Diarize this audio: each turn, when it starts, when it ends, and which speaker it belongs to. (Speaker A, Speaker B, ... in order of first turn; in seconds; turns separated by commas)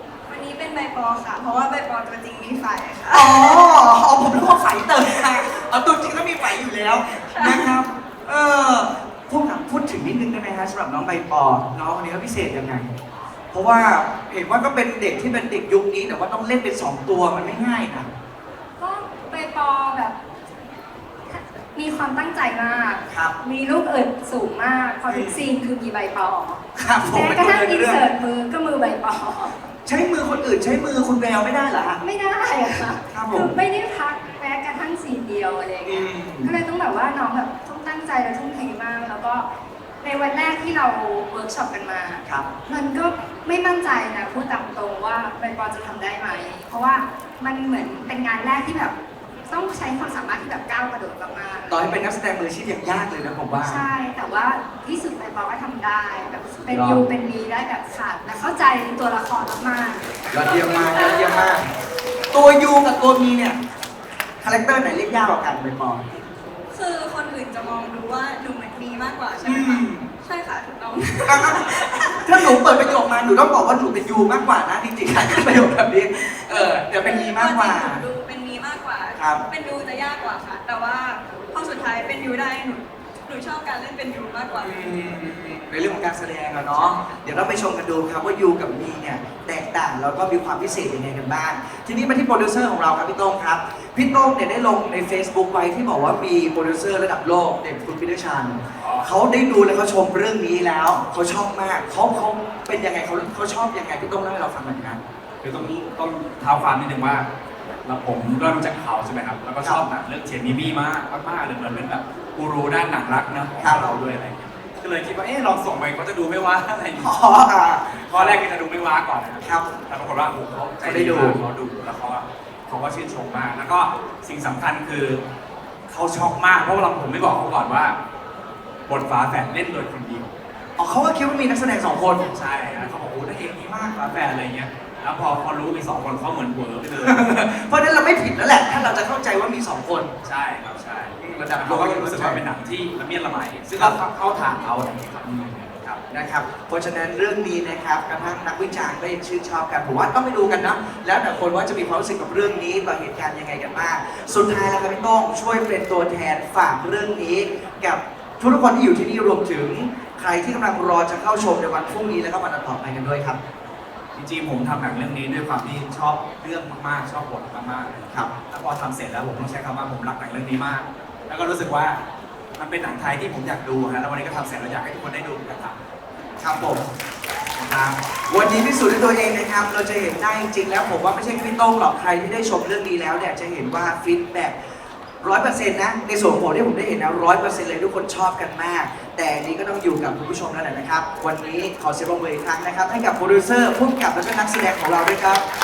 Speaker A: 0.3-3.6, Speaker B: 3.1-12.9, Speaker A: 7.1-7.8, Speaker B: 13.5-18.1, Speaker C: 18.8-20.2, Speaker C: 21.3-29.5, Speaker B: 23.1-23.4, Speaker B: 25.1-25.4, Speaker B: 26.8-28.0, Speaker B: 29.9-32.0, Speaker C: 32.0-39.5, Speaker B: 33.1-33.6, Speaker B: 35.9-36.5, Speaker C: 40.0-51.8, Speaker B: 51.7-53.8, Speaker C: 53.6-60.1, Speaker B: 56.6-57.0, Speaker B: 60.3-61.7, Speaker A: 60.9-61.5, Speaker B: 62.3-63.6, Speaker B: 64.4-66.0, Speaker A: 66.7-72.6, Speaker B: 69.4-70.1, Speaker B: 71.3-78.0, Speaker A: 76.4-84.9, Speaker B: 79.2-79.4, Speaker B: 84.6-105.0, Speaker A: 86.7-87.1, Speaker D: 98.8-99.1, Speaker D: 105.4-107.3, Speaker D: 107.8-117.1, Speaker B: 113.6-113.9, Speaker B: 117.0-118.4, Speaker D: 117.9-125.2, Speaker B: 119.4-119.7, Speaker B: 120.8-121.4, Speaker D: 125.9-128.0, Speaker D: 128.9-130.3, Speaker B: 130.8-132.2, Speaker D: 132.3-137.2, Speaker B: 137.0-140.1, Speaker D: 140.2-146.0, Speaker B: 141.2-142.4, Speaker B: 146.1-163.4, Speaker D: 164.2-172.0, Speaker D: 172.6-175.8, Speaker B: 176.4-176.8, Speaker B: 177.6-184.6, Speaker B: 185.2-195.4